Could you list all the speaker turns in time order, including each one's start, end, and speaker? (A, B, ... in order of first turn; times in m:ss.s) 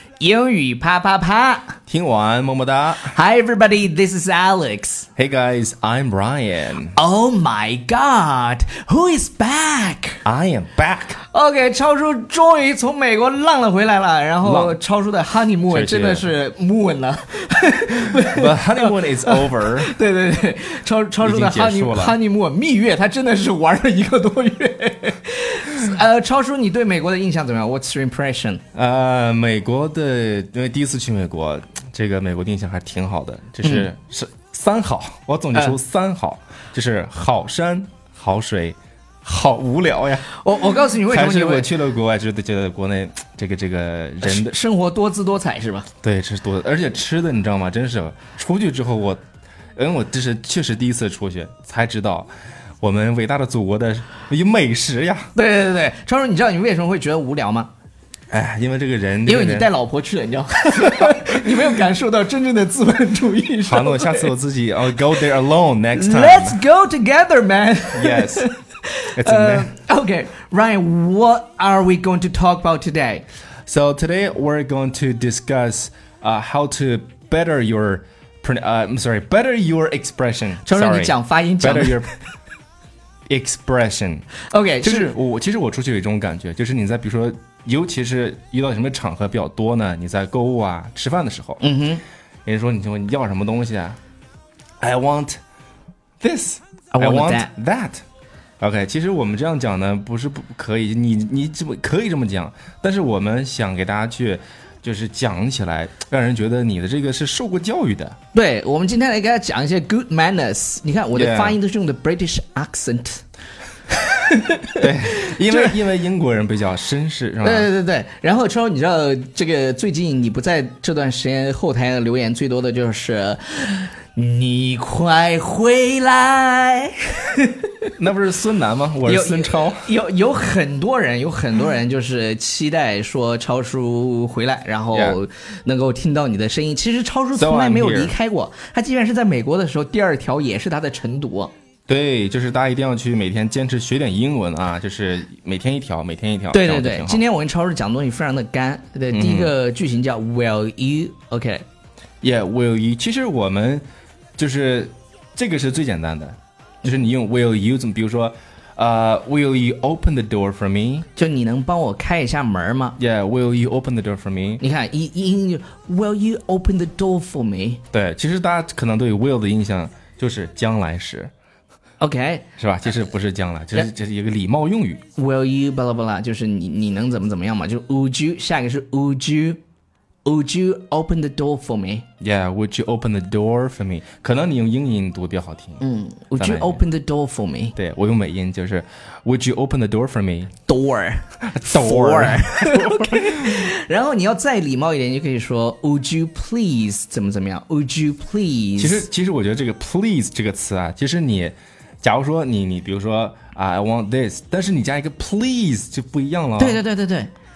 0:00.2-0:01.8 A
0:01.9-0:03.1 B
0:03.0-0:05.1 A
0:05.2-0:07.0 B
0:06.9-0:10.2 A
0:10.2-0:11.2 B
0:11.3-0:28.6 A
0:14.4-0:14.8 B
0:15.7-0:16.3 B
0:18.0-0:19.9 B
0:21.2-0:22.2 B
0:28.7-0:40.3 B
0:33.6-0:33.9 A
0:40.3-0:41.7 A
0:41.1-0:44.6 B
0:44.2-0:45.9 A
0:46.0-0:49.2 B
0:49.8-0:55.3 B
0:55.3-0:57.7 A
0:58.3-0:59.7 B
0:59.2-1:04.3 A
1:00.9-1:01.2 B
1:03.6-1:06.6 B
1:05.9-1:13.2 A
1:07.9-1:08.5 B
1:09.1-1:09.7 B
1:13.7-1:22.1 B
1:20.6-1:22.1 A
1:23.3-1:24.2 B
1:24.5-1:25.1 A
1:24.8-1:31.6 B
1:31.6-1:32.0 A
1:32.4-1:34.0 B
1:34.8-1:35.4 B
1:36.2-1:38.0 B
1:36.9-1:37.5 A
1:38.6-1:48.2 B
1:48.3-1:53.2 A
1:51.1-1:51.6 B
1:53.9-1:55.7 A
1:54.8-1:57.7 B
1:57.4-2:07.9 A
2:08.0-2:09.9 B
2:09.0-2:21.5 A
2:14.9-2:15.2 B
2:17.3-2:18.1 B
2:21.9-2:27.2 B
2:26.5-2:31.6 A
2:29.1-2:29.5 B
2:32.2-2:33.8 B
2:34.4-2:41.0 B
2:41.2-2:43.0 A
2:43.0-2:44.6 B
2:44.6-2:47.8 A
2:47.9-2:51.3 B
2:52.0-2:52.4 A
2:52.6-2:55.0 B
2:55.1-2:59.6 A
3:00.2-3:02.0 A
3:02.2-3:05.8 B
3:05.8-3:07.8 A
3:06.4-3:06.8 B
3:07.8-3:10.5 B
3:10.7-3:19.1 A
3:11.5-3:13.7 B
3:18.8-3:26.8 B
3:26.6-3:27.3 A